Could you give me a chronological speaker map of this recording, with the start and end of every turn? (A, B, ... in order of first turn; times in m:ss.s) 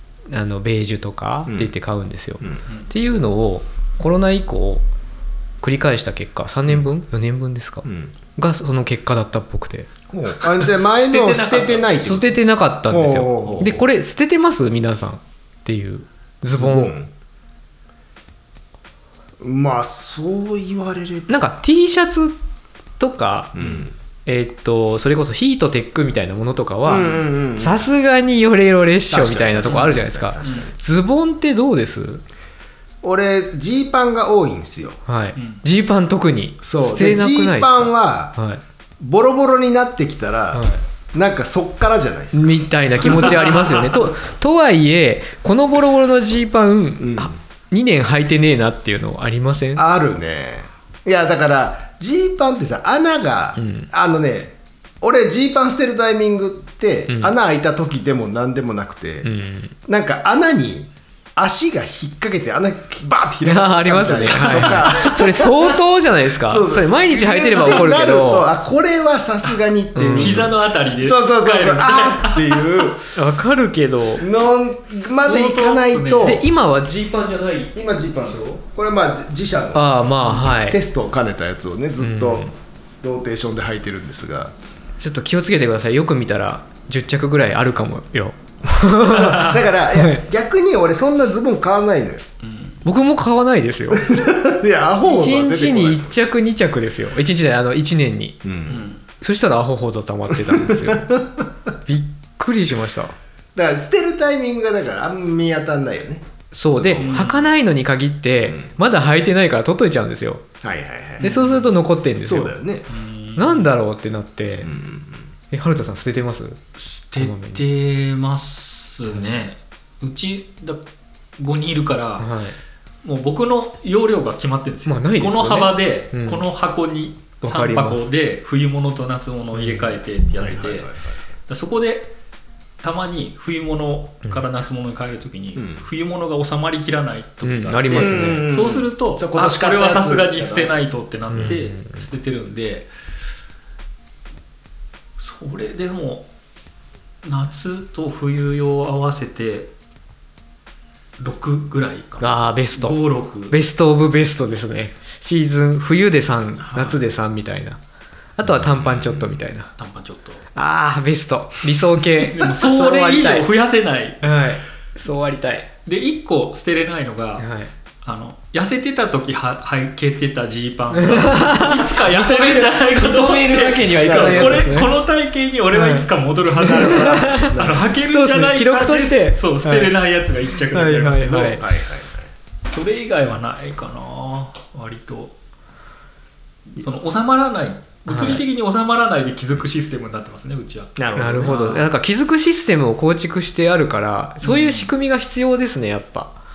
0:00.3-0:04.8 A
0:05.6-0:09.9 A
0:07.8-0:08.1 B
0:10.1-0:12.4 B
0:10.9-0:11.9 C
0:12.0-0:17.0 A
0:12.9-0:13.8 B
0:16.6-0:17.1 B
0:19.4-0:21.4 B
0:21.3-0:22.4 A
0:23.0-0:23.6 A
0:23.5-0:23.9 B
0:24.2-0:32.2 A
0:26.8-0:27.9 B
0:29.1-0:30.7 B
0:30.4-0:30.7 C
0:33.0-0:35.0 B
0:35.0-0:38.6 A
0:36.6-0:38.4 B
0:39.0-0:43.8 B
0:40.5-0:40.8 A
0:42.3-0:49.8 A
0:47.0-0:47.3 B
0:49.8-0:59.3 B
0:53.6-0:53.9 A
0:57.1-0:57.3 A
0:59.2-0:59.8 A
0:59.8-1:05.8 B
1:03.4-1:08.5 A
1:04.4-1:04.9 C
1:06.4-1:13.1 B
1:10.0-1:10.5 A
1:10.1-1:12.7 C
1:13.1-1:14.3 A
1:14.2-1:16.4 B
1:15.1-1:16.4 C
1:16.2-1:17.8 A
1:17.7-1:24.5 B
1:19.7-1:20.8 A
1:22.0-1:22.5 A
1:25.0-1:30.2 A
1:28.9-1:32.2 B
1:32.4-1:32.8 C
1:32.8-1:34.1 A
1:33.9-1:36.1 B
1:35.0-1:38.4 A
1:38.4-1:38.9 B
1:38.7-1:39.0 C
1:39.2-1:41.2 A
1:40.4-1:41.4 B
1:41.8-1:43.1 A
1:43.5-1:47.3 B
1:46.5-1:50.4 A
1:47.0-1:47.5 C
1:48.5-1:48.7 B
1:50.6-1:51.3 B
1:51.2-1:51.7 C
1:51.2-1:52.5 A
1:52.2-1:52.9 B
1:52.9-1:53.7 C
1:53.4-1:54.7 A
1:54.6-1:55.3 B
1:55.5-1:56.6 A
1:56.8-2:00.8 C
1:57.2-1:57.6 A
2:01.4-2:02.3 C
2:02.2-2:02.5 A
2:03.0-2:10.9 C
2:04.8-2:06.4 A
2:07.4-2:08.1 A
2:09.5-2:09.9 A
2:10.4-2:11.2 B
2:11.5-2:12.1 C
2:12.8-2:22.9 C
2:15.6-2:15.8 B
2:17.4-2:18.4 A
2:17.9-2:20.7 B
2:21.3-2:21.9 A
2:25.2-2:26.3 C
2:27.2-2:29.7 C
2:31.2-2:33.6 C
2:32.2-2:37.8 A
2:36.6-2:37.0 C
2:38.4-2:39.7 A
2:38.6-2:39.2 B
2:39.8-2:40.4 C
2:40.5-2:43.5 A
2:42.3-2:44.2 C
2:44.2-2:45.7 A
2:45.8-2:47.5 C
2:47.4-2:47.7 A
2:48.0-3:01.6 C
2:50.9-2:54.9 A
2:53.9-2:54.7 B
2:55.7-2:56.1 A
2:56.6-2:59.9 A
2:56.6-2:57.9 B
3:00.7-3:01.6 A
3:01.6-3:02.3 B
3:02.7-3:05.3 C
3:06.8-3:11.9 C
3:08.1-3:08.4 A
3:11.0-3:11.6 B
3:11.2-3:16.3 A
3:14.4-3:14.9 C